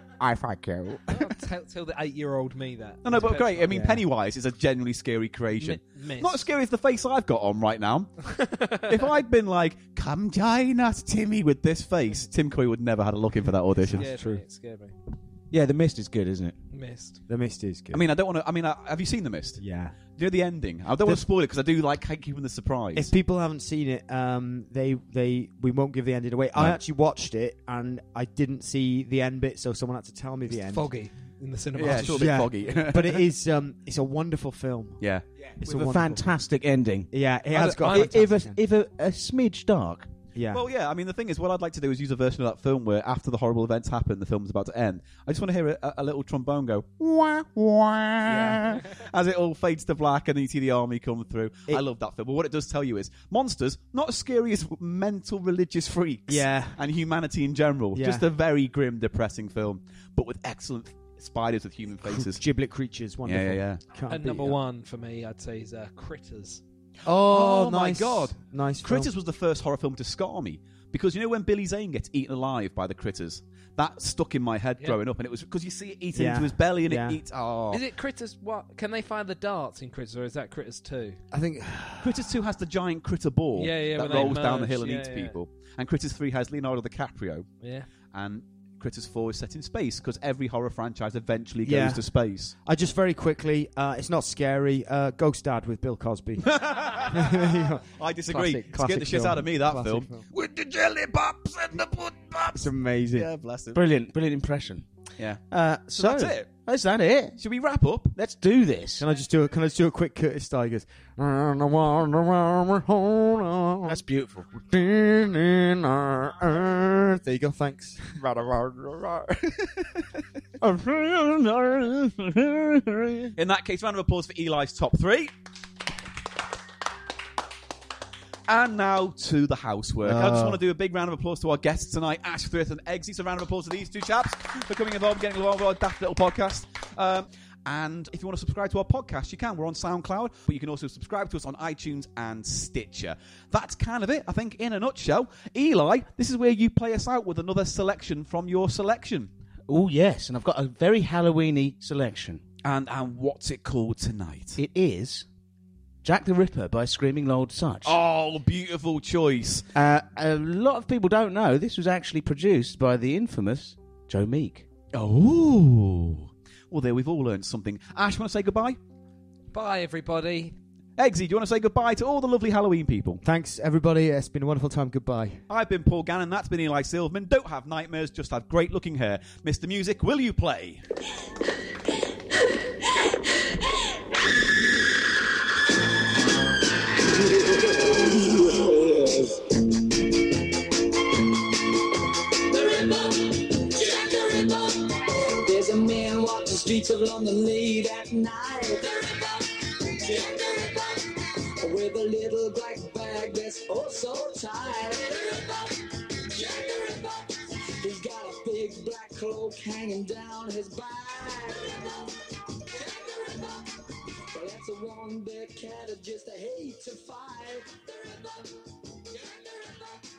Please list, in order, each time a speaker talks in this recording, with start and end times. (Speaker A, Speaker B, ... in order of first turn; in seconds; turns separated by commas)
Speaker A: 0.2-1.0, Speaker B: 1.1-3.7, Speaker A: 3.0-8.1, Speaker C: 3.7-4.0, Speaker B: 5.6-6.5, Speaker B: 8.4-8.9, Speaker A: 8.7-14.1, Speaker C: 13.8-14.4, Speaker B: 13.9-14.9, Speaker D: 15.5-16.6, Speaker B: 16.7-17.2, Speaker C: 17.3-18.0, Speaker A: 17.9-19.6, Speaker C: 19.6-20.0, Speaker A: 20.1-23.1, Speaker C: 22.9-30.9, Speaker A: 26.6-26.8, Speaker B: 30.5-32.5, Speaker A: 31.8-33.3, Speaker C: 31.8-35.0, Speaker A: 35.0-36.1, Speaker C: 35.6-36.3, Speaker D: 35.7-37.1, Speaker C: 37.1-38.6, Speaker D: 37.6-40.1, Speaker B: 37.7-38.1, Speaker C: 40.3-40.6, Speaker A: 40.5-62.4, Speaker C: 48.3-48.6, Speaker C: 56.3-56.8, Speaker C: 57.9-58.3, Speaker C: 62.0-64.6, Speaker A: 63.2-63.8, Speaker B: 64.1-66.6, Speaker C: 67.0-69.1, Speaker A: 67.1-77.8, Speaker C: 76.2-77.2, Speaker B: 77.7-81.2, Speaker C: 81.3-82.2, Speaker A: 82.0-87.5, Speaker B: 83.5-85.4, Speaker C: 84.1-84.4, Speaker B: 87.6-87.9, Speaker A: 88.1-92.5, Speaker C: 91.6-92.0, Speaker C: 92.7-100.3, Speaker A: 96.5-103.8, Speaker C: 102.5-103.3, Speaker D: 103.7-104.8, Speaker A: 105.2-105.4, Speaker D: 105.5-107.4, Speaker A: 106.0-106.5, Speaker A: 107.4-108.2, Speaker D: 108.2-109.0, Speaker C: 109.0-114.0, Speaker D: 113.9-114.5, Speaker C: 114.7-119.7, Speaker D: 120.6-123.3, Speaker A: 123.4-125.3, Speaker A: 128.5-149.3, Speaker D: 130.0-130.6, Speaker D: 149.7-152.4, Speaker A: 152.6-154.6, Speaker D: 154.6-155.3, Speaker D: 156.0-158.0, Speaker A: 157.8-159.7, Speaker D: 159.8-164.7, Speaker A: 164.9-168.8, Speaker B: 169.5-170.6, Speaker A: 171.0-173.2, Speaker C: 173.2-175.4, Speaker A: 175.5-180.8, Speaker E: 187.1-189.4, Speaker E: 192.5-205.8, Speaker E: 206.3-212.0, Speaker E: 212.7-213.7, Speaker E: 214.3-219.8